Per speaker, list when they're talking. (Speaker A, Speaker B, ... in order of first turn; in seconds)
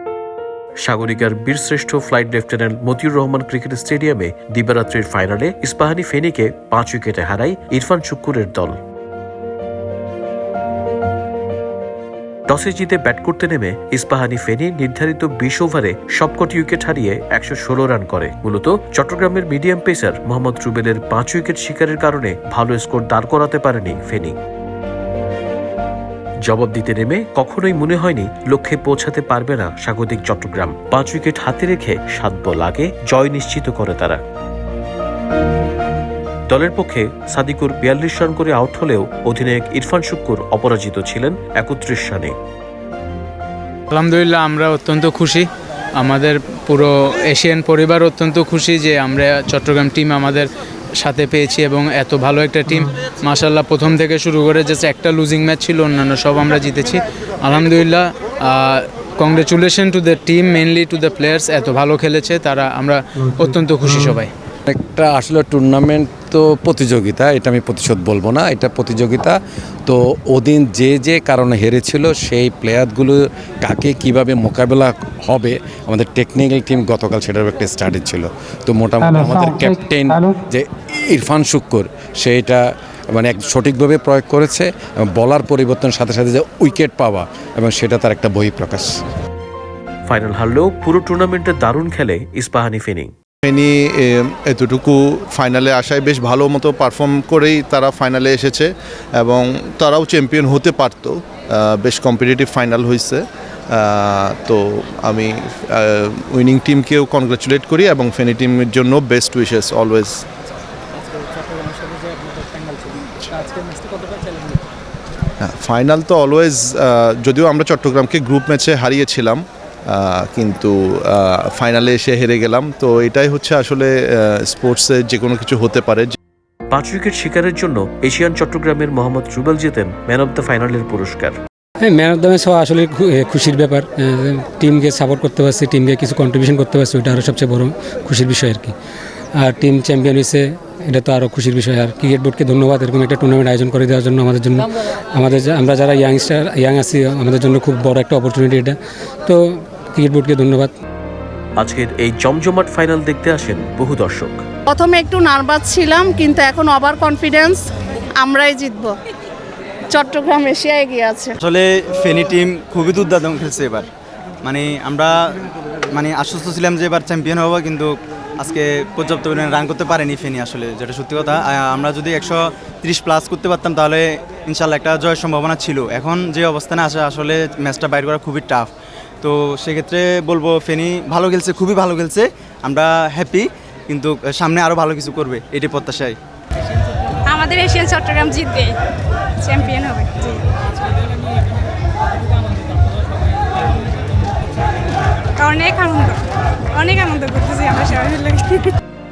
Speaker A: 0.8-8.8, 12.5-24.4, 26.4-34.2, 36.5-42.4, 90.1-93.1, 126.7-131.4, 151.6-154.4
Speaker B: 43.9-45.5, 46.0-64.3
Speaker C: 64.7-88.9
Speaker D: 79.0-80.4, 131.8-138.8, 139.4-150.7
Speaker E: 93.5-110.2, 115.4-126.1
Speaker F: 111.3-112.3, 113.3-114.5, 187.3-188.8, 189.4-190.4, 195.4-196.2, 196.7-198.8
Speaker G: 154.7-157.6, 158.2-158.9, 159.9-161.3
Speaker H: 161.4-163.9, 164.4-165.4, 165.9-178.7, 179.2-186.2